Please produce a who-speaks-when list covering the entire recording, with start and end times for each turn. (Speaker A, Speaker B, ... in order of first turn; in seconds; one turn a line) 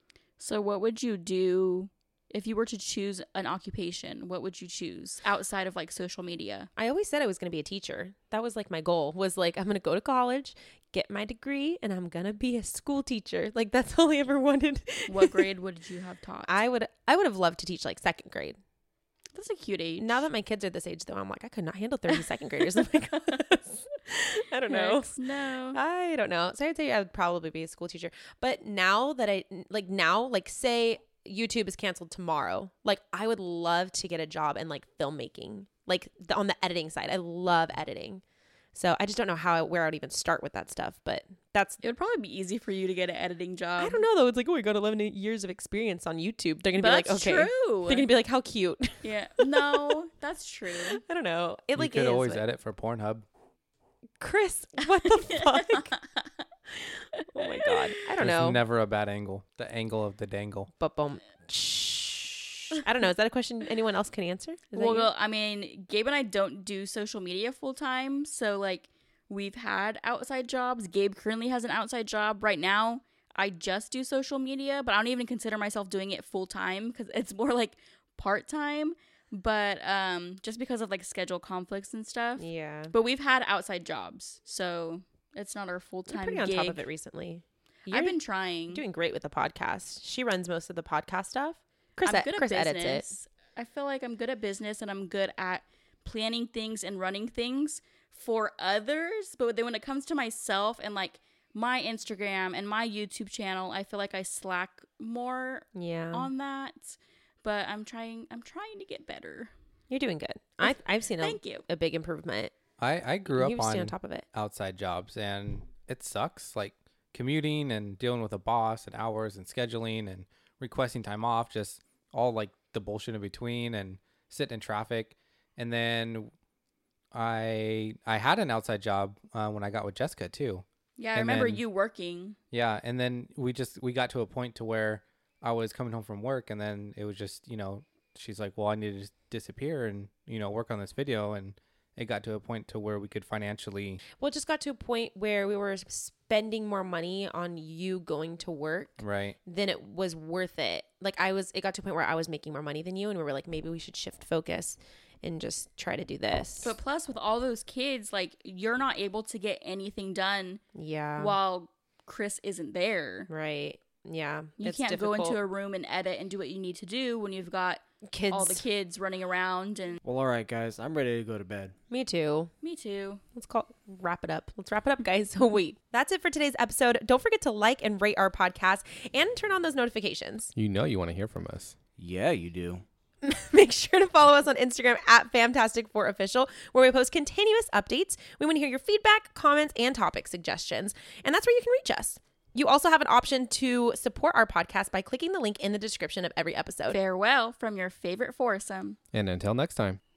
Speaker A: 0.4-6.7
Speaker B: 6.8-15.5
Speaker A: 15.1-16.5
Speaker B: 16.5-18.6
Speaker A: 19.3-20.2
Speaker B: 20.0-25.2
Speaker A: 24.7-25.8
Speaker B: 25.7-38.2
Speaker B: 38.7-41.8
Speaker A: 41.8-44.0
Speaker B: 43.8-49.9
Speaker A: 46.8-48.1
Speaker A: 49.0-51.0
Speaker B: 50.9-52.4
Speaker C: 51.8-53.2
Speaker B: 54.2-55.9
Speaker A: 55.0-56.2
Speaker B: 57.3-58.6
Speaker A: 57.3-57.8
Speaker C: 58.2-60.7
Speaker B: 60.8-65.1
Speaker A: 64.7-86.8
Speaker B: 82.4-82.9
Speaker B: 86.1-88.2
Speaker A: 87.9-88.8
Speaker B: 88.7-93.1
Speaker A: 92.0-109.5
Speaker B: 105.7-106.3
Speaker B: 109.9-112.5
Speaker A: 110.6-111.6
Speaker C: 112.8-126.3
Speaker B: 113.2-114.2
Speaker C: 127.1-131.6
Speaker A: 131.0-132.4
Speaker C: 132.5-144.0
Speaker B: 144.1-156.7
Speaker C: 149.0-149.3
Speaker A: 156.6-160.6
Speaker B: 160.7-161.3
Speaker A: 161.2-163.3
Speaker B: 163.3-165.4
Speaker A: 164.6-170.0
Speaker B: 168.1-168.6
Speaker D: 170.0-171.7
Speaker B: 171.9-172.5
Speaker A: 172.6-173.2
Speaker B: 173.3-180.5
Speaker E: 180.5-181.7
Speaker D: 182.0-182.8
Speaker B: 183.2-197.0
Speaker A: 196.9-199.0
Speaker E: 199.1-200.0